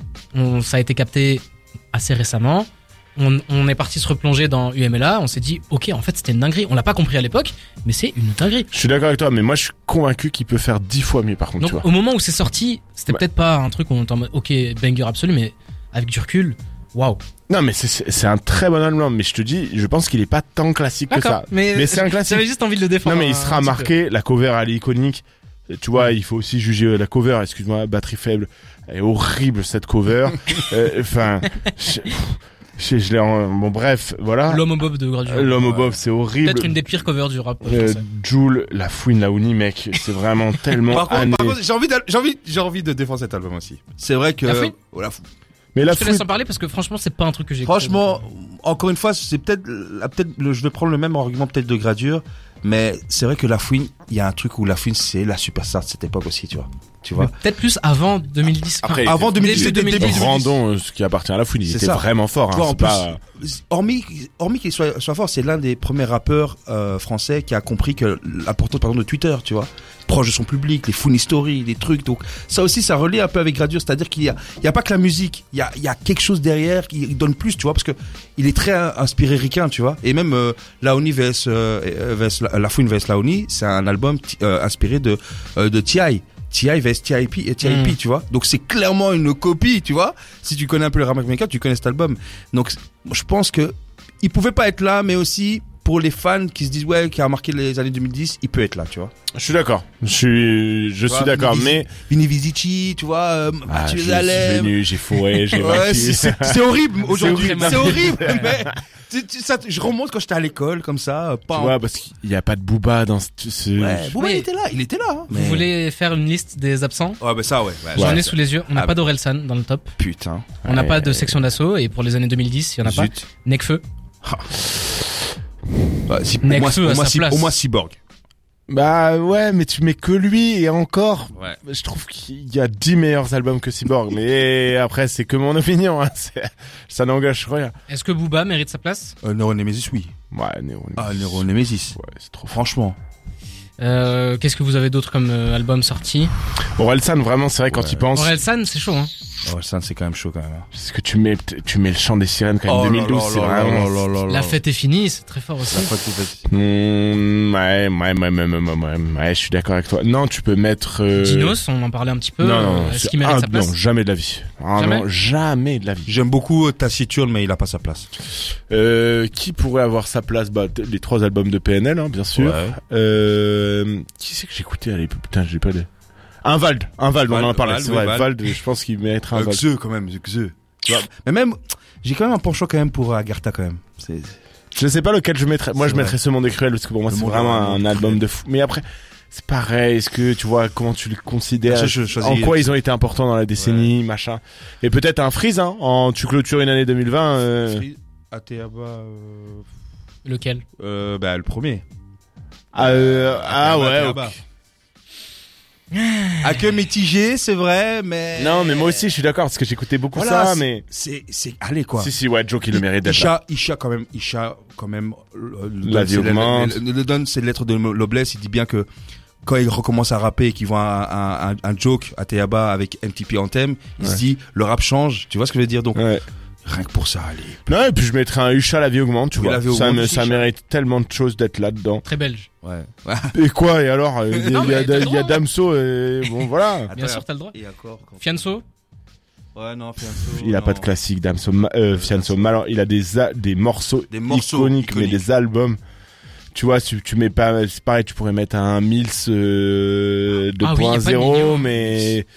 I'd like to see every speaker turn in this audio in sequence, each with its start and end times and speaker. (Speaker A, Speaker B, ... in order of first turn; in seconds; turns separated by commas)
Speaker A: 0.3-8.7, Speaker B: 8.7-11.9, Speaker A: 11.6-17.2, Speaker B: 17.5-22.5, Speaker A: 21.1-23.9, Speaker B: 23.0-34.7, Speaker A: 34.5-38.0, Speaker B: 35.2-37.0, Speaker B: 37.6-41.6, Speaker C: 40.9-45.2, Speaker A: 44.5-44.7, Speaker B: 45.7-46.3, Speaker A: 45.8-48.1, Speaker C: 47.6-57.3, Speaker A: 57.2-60.3, Speaker B: 58.8-63.2, Speaker C: 59.0-60.6, Speaker C: 61.7-99.1, Speaker A: 87.6-88.0, Speaker B: 99.3-101.9, Speaker C: 101.1-104.8, Speaker B: 103.7-108.7, Speaker C: 105.4-111.8, Speaker A: 107.1-108.5, Speaker B: 111.5-114.2, Speaker C: 113.8-115.7, Speaker A: 114.2-114.5, Speaker A: 115.3-117.2, Speaker C: 117.2-119.0, Speaker A: 118.0-119.9, Speaker B: 118.0-118.2, Speaker C: 120.0-120.5, Speaker B: 120.6-121.4, Speaker A: 120.7-123.8, Speaker C: 122.8-123.2, Speaker C: 124.2-124.7, Speaker C: 126.1-128.0, Speaker A: 126.4-127.5, Speaker B: 128.7-137.8, Speaker A: 137.9-139.2, Speaker C: 139.2-140.1, Speaker B: 140.3-142.6, Speaker C: 141.0-142.0, Speaker C: 142.5-143.0, Speaker A: 143.8-146.3, Speaker B: 146.7-148.4, Speaker C: 147.7-148.0, Speaker A: 148.1-149.1, Speaker C: 149.4-150.7, Speaker B: 150.7-154.0, Speaker C: 152.7-154.6, Speaker A: 154.3-155.9, Speaker C: 155.7-156.4, Speaker B: 156.5-161.6, Speaker A: 161.1-163.7, Speaker B: 162.4-166.1, Speaker A: 164.8-165.1, Speaker C: 166.1-168.1, Speaker B: 168.7-175.9, Speaker C: 172.3-172.8, Speaker B: 176.4-179.6, Speaker C: 177.3-178.3, Speaker C: 179.3-184.4, Speaker B: 184.7-197.8, Speaker C: 185.8-186.2, Speaker C: 187.1-188.2, Speaker C: 191.7-192.7, Speaker C: 193.6-193.9, Speaker C: 197.6-199.7, Speaker A: 200.2-200.6, Speaker C: 200.8-201.8, Speaker B: 202.7-204.4, Speaker C: 202.8-204.4, Speaker A: 205.9-206.8, Speaker C: 206.4-209.1, Speaker B: 208.4-210.8, Speaker C: 210.1-212.1, Speaker B: 212.0-213.3, Speaker C: 212.7-218.9, Speaker B: 215.8-216.8, Speaker C: 219.4-226.0, Speaker B: 225.9-226.2, Speaker C: 226.7-227.6, Speaker B: 227.7-232.1, Speaker C: 229.4-230.5, Speaker A: 232.1-232.5, Speaker C: 232.6-233.4, Speaker B: 233.3-236.9, Speaker C: 234.3-234.9, Speaker A: 234.5-235.4, Speaker C: 236.8-238.5, Speaker A: 236.9-237.6, Speaker A: 238.2-238.6, Speaker C: 239.6-240.9, Speaker B: 240.2-245.8, Speaker C: 241.9-242.6, Speaker C: 244.1-245.3, Speaker B: 246.5-252.3, Speaker A: 250.6-251.7